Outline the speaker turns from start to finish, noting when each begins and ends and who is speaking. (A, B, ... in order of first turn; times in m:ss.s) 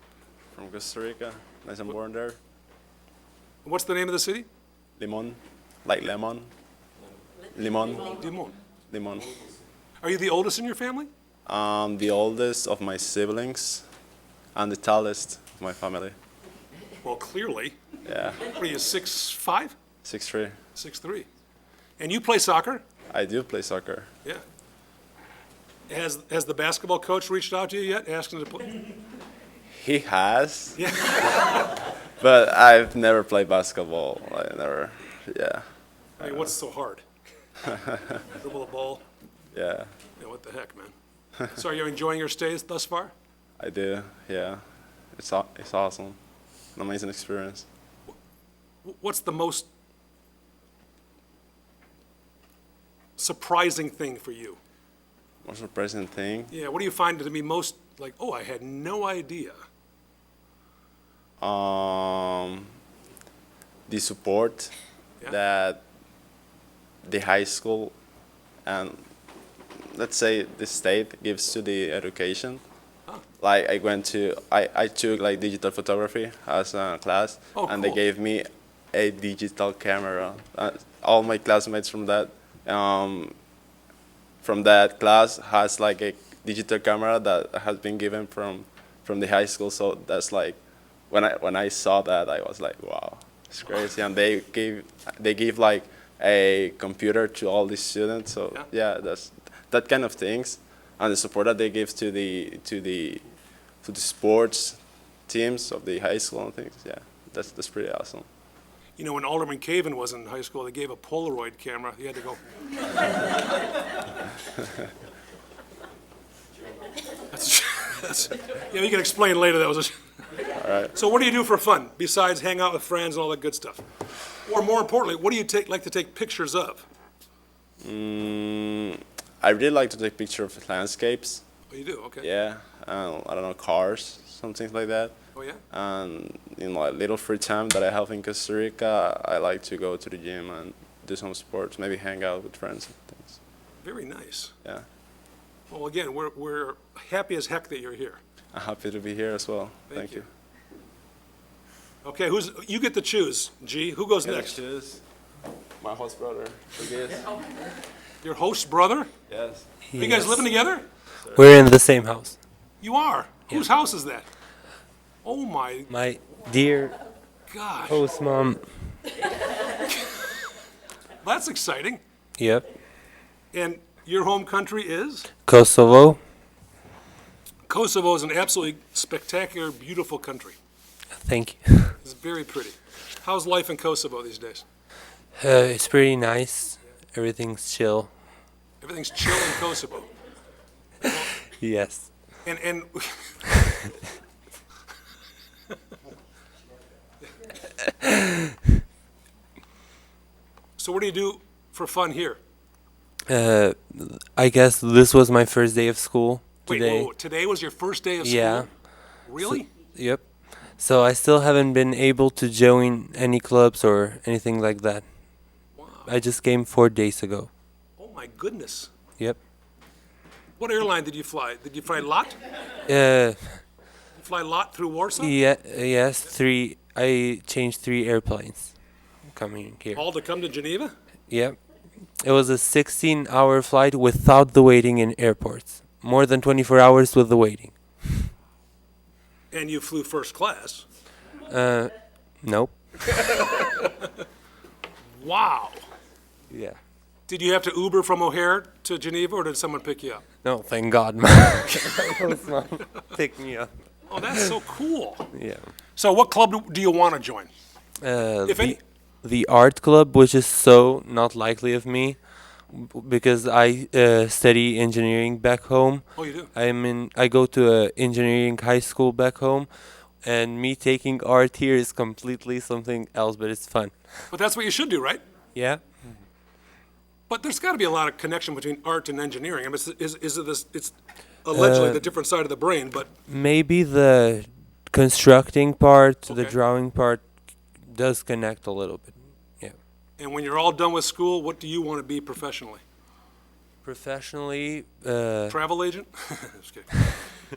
0:00.6-0:02.4 A
0:03.6-0:04.5 B
0:05.0-0:06.5 A
0:07.5-0:08.2 A
0:08.1-0:08.6 B
0:08.9-0:09.3 A
0:10.0-0:11.1 B
0:11.5-0:13.8 A
0:14.6-0:16.2 A
0:17.0-0:17.8 B
0:18.1-0:18.4 A
0:18.4-0:19.8 B
0:20.0-0:20.6 A
0:20.8-0:21.3 B
0:22.0-0:22.8 B
0:23.1-0:24.1 A
0:25.9-0:28.9 B
0:29.7-0:30.8 A
0:30.8-0:31.9 B
0:32.2-0:35.6 A
0:36.2-0:37.1 B
0:36.2-0:36.5 A
0:37.6-0:38.2 A
0:38.2-0:39.0 B
0:39.5-0:39.9 A
0:40.2-0:40.9 B
0:41.5-0:43.1 B
0:43.6-0:44.6 A
0:45.2-0:46.2 A
0:46.8-0:47.7 A
0:48.8-0:49.7 B
0:53.2-0:54.6 B
0:55.4-0:56.5 A
0:56.5-0:59.6 B
1:01.4-1:02.7 A
1:03.9-1:04.7 A
1:05.3-1:05.8 A
1:07.0-1:08.0 A
1:08.6-1:09.0 A
1:09.8-1:12.6 A
1:13.4-1:23.4 A
1:17.6-1:18.0 B
1:24.4-1:30.6 A
1:31.1-1:43.2 A
1:43.8-1:48.3 A
1:49.0-1:52.4 B
1:57.3-1:59.9 B
2:00.5-2:00.9 A
2:00.9-2:03.8 B
2:04.4-2:06.8 B
2:07.8-2:11.4 A
2:11.7-2:12.3 B
2:12.2-2:15.2 A
2:15.4-2:15.6 B
2:15.7-2:23.4 A
2:23.8-2:24.5 B
2:25.7-2:28.2 B
2:28.5-2:30.2 A
2:29.9-2:30.2 B
2:32.0-2:34.6 B
2:34.2-2:35.0 A
2:35.8-2:37.3 A
2:38.2-2:39.1 B
2:39.3-2:39.7 A
2:39.9-2:40.5 C
2:40.0-2:40.9 B
2:41.2-2:41.6 A
2:41.3-2:42.4 C
2:42.8-2:44.3 B
2:45.2-2:45.9 B
2:45.9-2:47.0 C
2:47.5-2:48.0 B
2:47.9-2:48.7 C
2:49.8-2:50.4 B
2:51.2-2:52.0 B
2:52.4-2:52.7 C
2:53.5-2:55.3 B
2:55.5-2:56.2 C
2:57.7-3:00.6 B
3:01.2-3:02.0 C
3:02.0-3:04.6 B
3:05.4-3:08.1 C
3:08.8-3:10.1 B
3:11.0-3:12.1 C
3:12.4-3:13.4 B
3:18.0-3:18.5 C
3:20.8-3:22.4 B
3:23.3-3:27.1 C
3:26.7-3:28.7 B
3:28.2-3:28.7 C
3:29.2-3:29.7 B
3:29.4-3:30.2 C
3:30.8-3:35.0 C
3:35.8-3:36.1 B
3:36.1-3:37.5 C
3:38.0-3:38.9 B
3:40.6-3:42.4 B
3:42.9-3:43.6 C
3:44.1-3:45.4 B
3:45.2-3:48.7 C
3:49.3-3:50.0 C
3:49.9-3:50.9 B
3:51.3-3:51.6 C
3:52.2-3:58.3 C
3:59.5-4:00.9 B
4:01.5-4:03.2 C
4:03.1-4:04.1 B
4:05.2-4:05.8 B
4:06.5-4:06.8 C
4:07.3-4:10.2 B
4:10.4-4:14.6 C
4:14.1-4:15.3 B
4:15.3-4:15.6 C
4:16.0-4:17.5 B
4:18.0-4:34.3 C
4:18.5-4:18.8 B
4:26.2-4:26.5 B
4:34.3-4:35.2 B
4:35.6-4:36.0 C
4:37.3-4:43.1 B
4:41.5-4:42.0 C
4:43.3-4:47.3 C
4:46.3-4:46.6 B
4:47.8-4:49.8 C
4:50.2-4:52.8 B
4:53.8-4:55.6 C
4:55.5-4:57.0 B